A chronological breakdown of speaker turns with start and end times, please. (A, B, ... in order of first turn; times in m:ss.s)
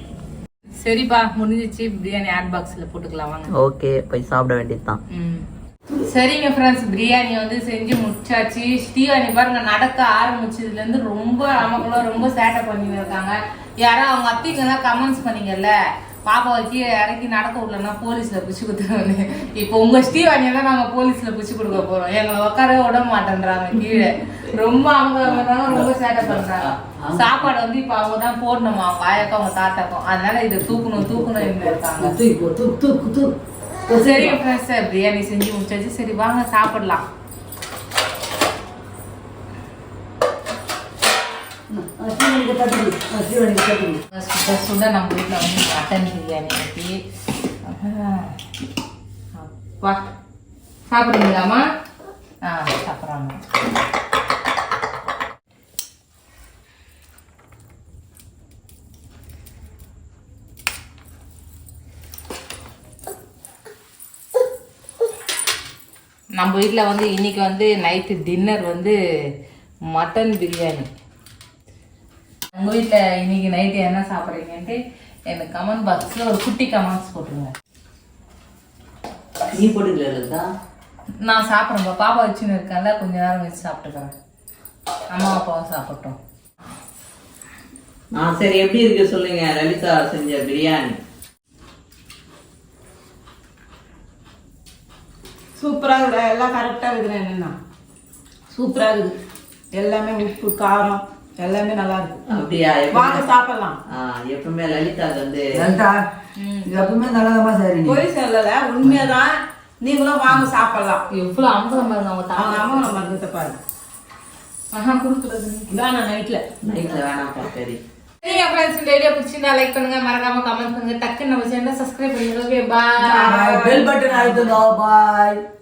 0:00.8-0:03.5 A
0:03.5-0:05.0 B
0:05.1-0:05.5 A
0:06.0-0:15.7 A
0:16.2-0:32.2 A
0:25.2-0:27.4 B
0:31.0-0:33.3 C
0:33.9-0:34.4 C
0:33.9-0:37.0 A
0:41.7-0:44.0 C
0:44.1-0:47.0 A
0:47.6-0:48.4 A
0:49.3-0:50.0 A
0:50.9-0:51.6 A
0:52.4-0:53.4 A
1:06.4-1:09.0 A
1:09.9-1:10.9 A
1:12.5-1:14.8 A
1:15.3-1:17.5 A
1:19.5-1:20.4 B
1:21.2-1:24.1 A
1:25.1-1:26.2 A
1:28.2-1:31.0 B
1:35.6-1:37.6 D
1:38.5-1:39.2 D
1:39.7-1:42.2 D
1:42.3-1:43.3 B
1:42.9-1:43.8 D
1:43.9-1:45.7 B
1:45.5-1:46.0 C
1:46.4-1:47.0 A
1:46.6-1:48.0 C
1:47.8-1:51.0 D
1:51.1-1:53.0 A
1:52.3-1:53.6 D
1:54.7-1:55.7 A
1:55.7-1:56.4 D
1:56.6-1:57.8 B
1:58.2-2:04.6 A
2:03.0-2:03.9 D
2:03.1-2:05.4 C